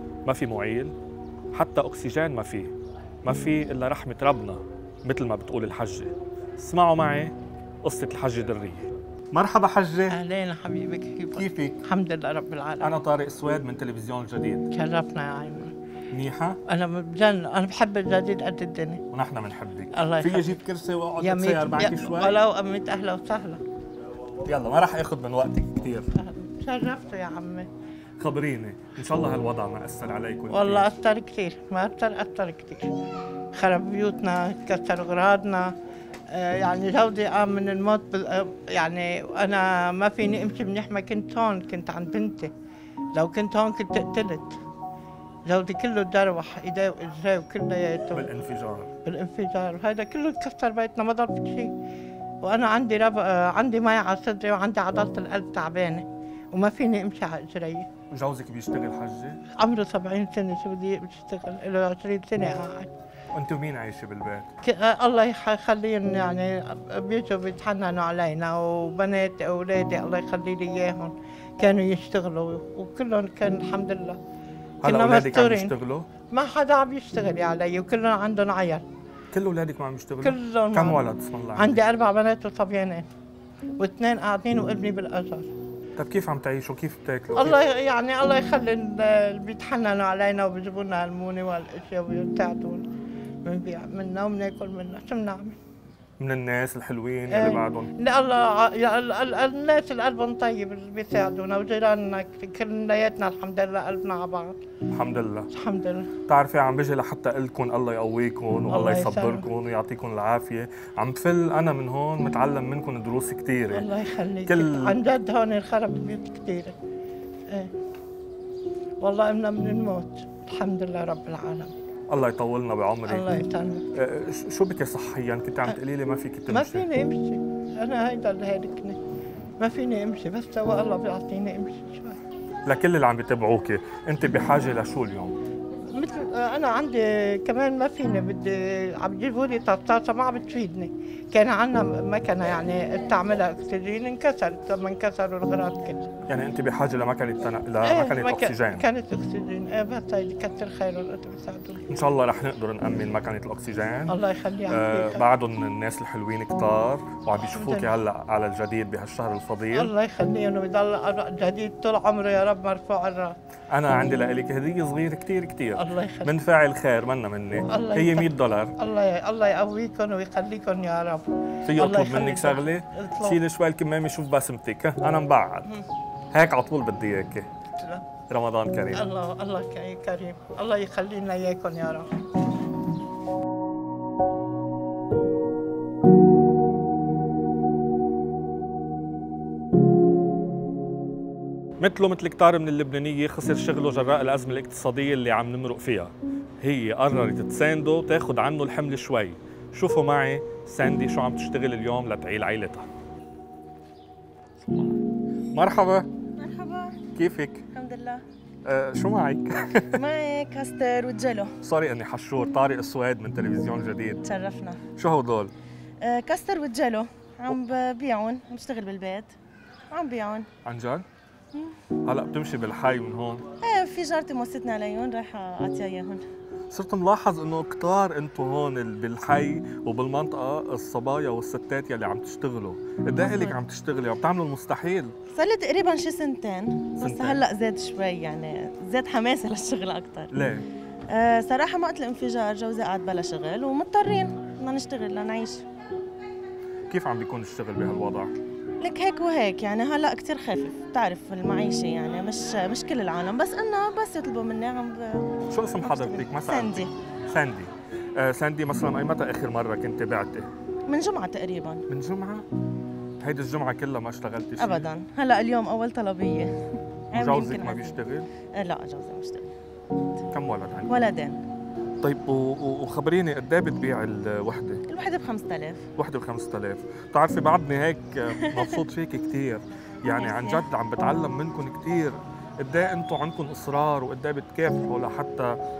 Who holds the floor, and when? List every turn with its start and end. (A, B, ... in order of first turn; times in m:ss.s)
0:00.3-0:00.9 A
0:01.5-0:02.7 A
0:03.2-0:10.2 A
0:10.1-0:13.0 B
0:11.4-0:11.8 A
0:12.8-0:14.7 A
0:14.7-0:15.7 B
0:16.1-0:16.6 A
0:16.7-0:19.0 B
0:19.1-0:22.4 A
0:19.9-0:20.6 B
0:21.2-0:23.6 B
0:24.4-0:26.1 A
0:26.2-0:27.7 B
0:28.2-0:30.9 A
0:30.5-0:32.9 B
0:33.6-0:35.7 B
0:36.3-0:42.5 B
0:43.2-0:44.6 B
0:45.5-0:48.3 B
0:48.1-0:48.9 A
0:49.0-0:51.7 B
0:52.4-0:57.9 B
0:58.1-0:59.4 A
0:59.6-1:02.9 B
1:03.3-1:04.5 A
1:04.6-1:14.2 B
1:14.8-1:16.1 A
1:14.8-1:15.7 B
1:16.3-1:18.8 B
1:19.3-1:21.8 A
1:20.2-1:21.0 B
1:21.6-1:23.0 B
1:23.8-1:25.5 B
1:26.0-1:27.6 A
1:27.3-1:32.8 B
1:33.4-1:35.6 B
1:36.2-1:37.9 A
1:37.3-1:44.6 B
1:44.9-1:45.5 A
1:45.5-1:46.1 B
1:46.3-1:53.9 A
1:48.7-1:49.5 B
1:53.7-1:56.8 B
1:54.5-1:55.0 A
1:59.0-2:01.7 B
2:02.1-2:03.3 A
2:03.1-2:03.9 B
2:03.9-2:06.9 A
2:06.5-2:09.0 B
2:09.6-2:12.2 B
2:12.6-2:15.4 A
2:15.9-2:26.1 B
2:26.3-2:28.9 A
2:27.8-2:31.8 B
2:31.9-2:34.2 A
2:34.1-2:35.2 B
2:34.7-2:39.9 A
2:37.4-2:37.9 B
2:39.7-2:43.3 B
2:43.7-2:48.7 A
2:45.8-2:46.4 B
2:47.7-2:53.4 B
2:51.6-2:55.7 A
2:56.3-2:57.5 A
2:58.3-2:59.0 A
2:58.9-3:02.1 B
3:11.8-3:22.9 A
3:24.6-3:25.0 A
3:25.5-3:26.1 A
3:26.4-3:27.0 C
3:27.1-3:27.7 A
3:27.7-3:28.2 C
3:28.6-3:30.0 A
3:30.0-3:31.6 C
3:31.6-3:34.2 A
3:34.2-3:34.8 C
3:35.0-3:35.5 A
3:36.0-3:39.3 C
3:39.9-3:40.5 C
3:40.6-3:41.0 A
3:42.0-3:43.4 A
3:43.6-3:46.2 C
3:46.7-3:55.1 A
3:53.2-3:53.6 C
3:55.4-4:00.3 C
3:57.0-3:57.4 A
4:00.3-4:00.6 A
4:01.1-4:05.6 C
4:06.9-4:08.3 A
4:08.8-4:16.9 C
4:15.5-4:20.5 A
4:20.9-4:21.8 C
4:21.9-4:22.5 A
4:23.2-4:24.9 A
4:24.6-4:26.6 C
4:27.1-4:28.0 C
4:27.1-4:28.3 A
4:28.5-4:29.5 C
4:30.3-4:31.0 A
4:30.9-4:31.4 C
4:32.0-4:34.8 A
4:34.9-4:35.8 C
4:36.0-4:45.6 A
4:38.4-4:38.8 C
4:40.1-4:40.7 C